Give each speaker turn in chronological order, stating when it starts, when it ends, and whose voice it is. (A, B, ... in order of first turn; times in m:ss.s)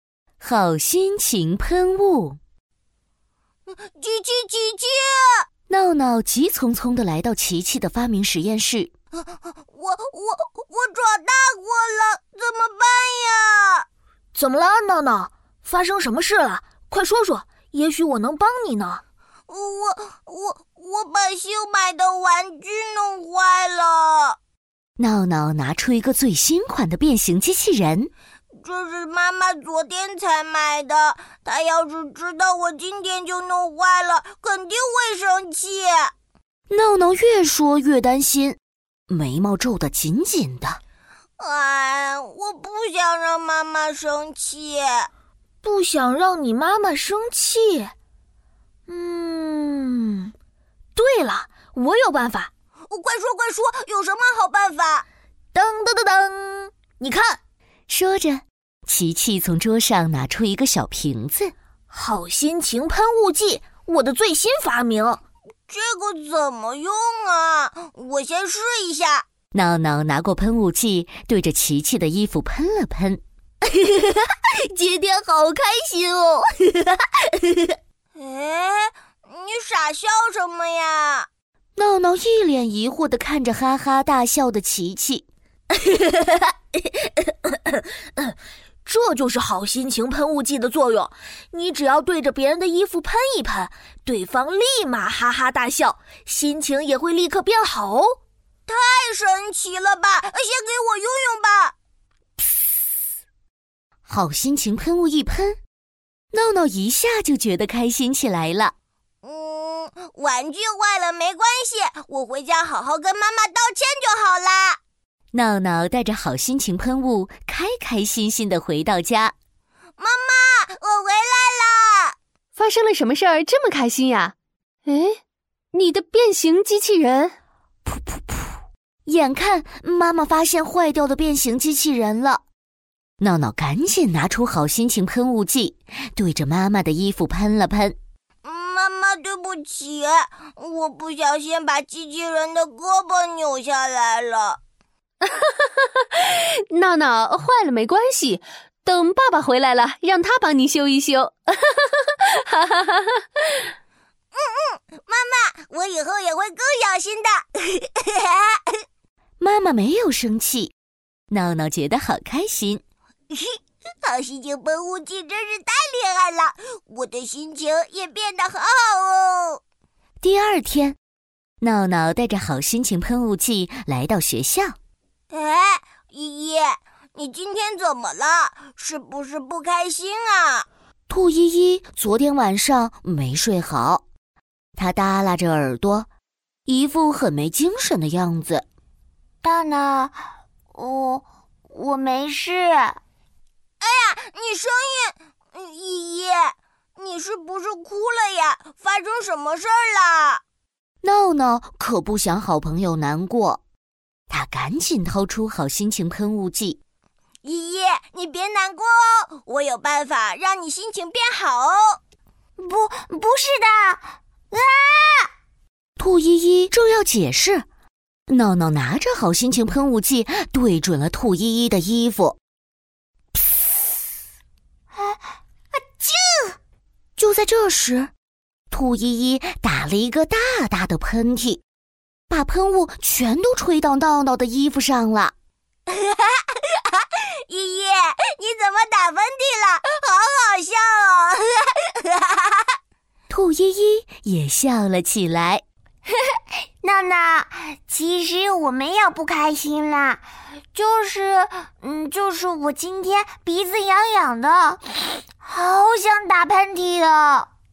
0:00.4-0:02.4 A
0:03.7-0:05.4 B
0:05.7-0:08.9 A
0:09.7-0:13.9 B
0:14.3-0:19.0 C
0:19.5-0:24.4 B
0:25.0-0:28.1 A
0:28.6-0:36.1 B
0:36.7-0:38.6 A
0:39.1-0:40.8 A
0:41.4-0:45.1 B
0:45.6-0:47.9 C
0:48.9-0:50.3 C
0:51.0-0:52.5 C
0:52.9-0:55.0 B
0:55.5-0:57.4 C
0:57.9-1:01.5 A
1:01.9-1:05.2 C
1:05.7-1:09.2 B
1:09.5-1:13.2 A
1:14.9-1:15.6 A
1:15.3-1:16.4 B
1:18.2-1:21.3 B
1:21.8-1:25.3 A
1:27.4-1:38.2 C
1:38.7-1:41.7 B
1:44.1-1:45.6 A
1:46.3-1:48.7 A
1:49.2-1:54.8 B
1:55.3-1:59.3 A
2:00.0-2:02.2 B
2:02.6-2:04.3 D
2:04.9-2:05.2 D
2:05.7-2:07.3 D
2:07.8-2:12.4 A
2:13.2-2:18.0 A
2:18.4-2:24.6 B
2:25.3-2:33.2 D
2:34.3-2:38.7 B
2:39.4-2:40.7 A
2:41.3-2:42.8 A
2:43.3-2:49.6 B
2:50.2-2:51.0 A
2:51.6-2:54.8 A
2:55.3-3:00.7 B
3:01.1-3:04.0 A
3:04.8-3:06.1 A
3:06.7-3:08.6 A
3:09.4-3:10.2 E
3:10.7-3:13.0 E
3:13.8-3:20.4 B
3:21.0-3:23.6 A
3:24.3-3:26.8 A
3:27.4-3:32.0 B
3:32.6-3:35.3 E
3:36.0-3:37.7 A
3:38.3-3:42.4 A
3:45.8-3:46.6 E
3:47.2-3:48.1 A
3:48.7-3:51.6 A
3:52.3-3:55.3 A
3:55.9-4:02.7 B
4:03.3-4:05.6 A
4:06.8-4:14.8 E
4:15.4-4:17.5 E